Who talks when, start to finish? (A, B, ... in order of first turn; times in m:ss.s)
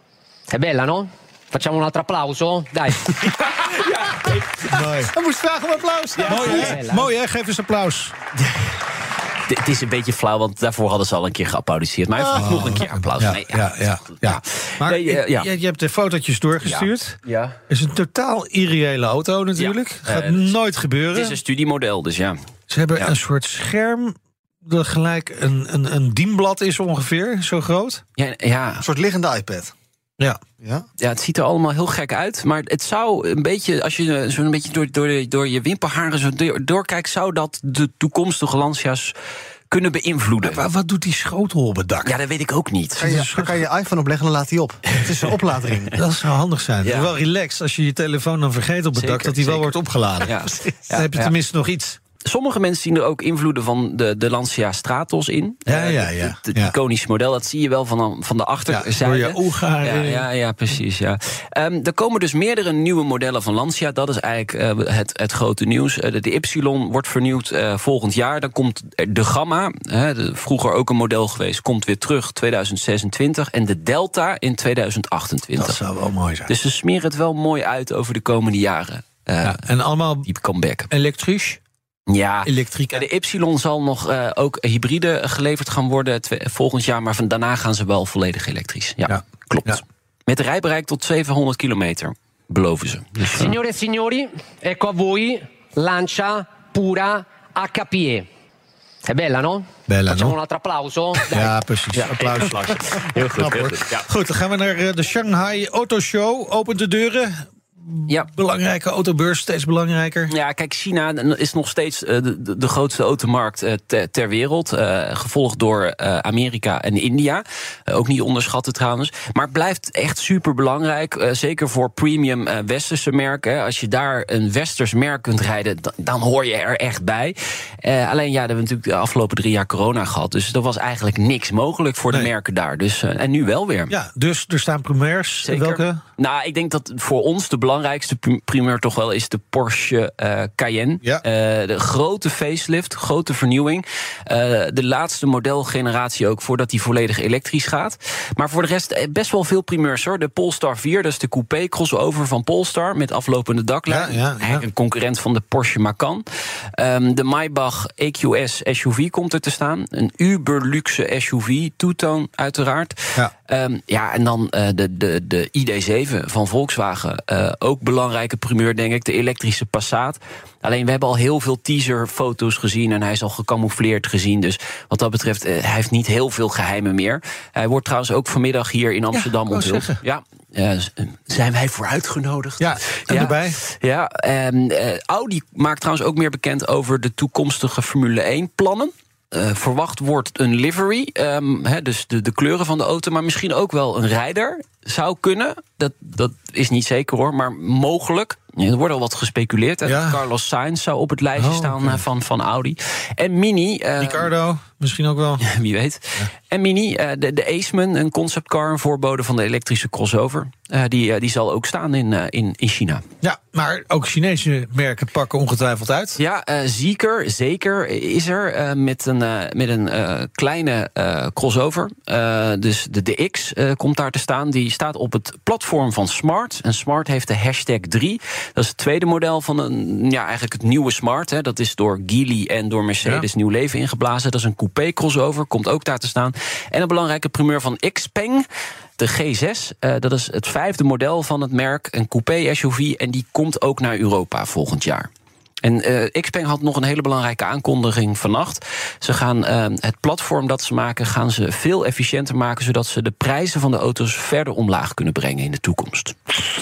0:00.5-0:03.2 A
0:03.1-0:04.4 B
0:04.7-0:05.1 C
0:05.0-0:06.3 D
0:06.2-0:07.1 A
0:06.2-0:08.1 C
0:06.3-0:06.7 B
0:09.5-0:15.5 B
0:12.2-0:21.4 C
0:16.6-0:17.6 B
0:19.6-0:20.5 B
0:21.1-0:22.4 B
0:22.7-0:28.0 C
0:28.2-0:28.8 B
0:28.8-0:29.7 D
0:30.6-0:30.8 D
0:31.0-0:39.1 B
0:39.7-0:40.6 B
0:40.4-0:42.1 C
0:42.0-0:43.3 B
0:43.0-0:46.0 D
0:43.1-0:43.6 C
0:45.9-0:52.0 C
0:46.8-0:47.1 B
0:48.9-0:51.3 B
0:52.2-1:15.8 B
0:55.7-0:56.7 C
0:58.7-1:00.3 C
1:15.6-1:16.5 C
1:16.5-1:19.6 B
1:19.4-1:20.3 C
1:20.2-1:20.9 B
1:20.9-1:21.6 C
1:22.1-1:33.6 B
1:22.4-1:23.0 C
1:29.1-1:29.8 C
1:33.3-1:38.3 A
1:39.0-1:41.5 A
1:39.9-1:40.4 C
1:41.3-1:50.3 C
1:41.9-1:44.1 B
1:50.3-2:13.9 B
2:13.9-2:16.0 C
2:15.4-3:24.3 B
2:33.9-2:34.6 C
2:59.1-3:00.0 C
3:02.6-3:03.6 C
3:19.8-3:20.2 C
3:21.4-3:22.0 C
3:24.0-3:25.4 C
3:25.4-3:33.0 B
3:33.2-3:36.2 C
3:36.2-3:58.4 B
3:59.0-4:05.1 B
4:05.6-4:16.4 B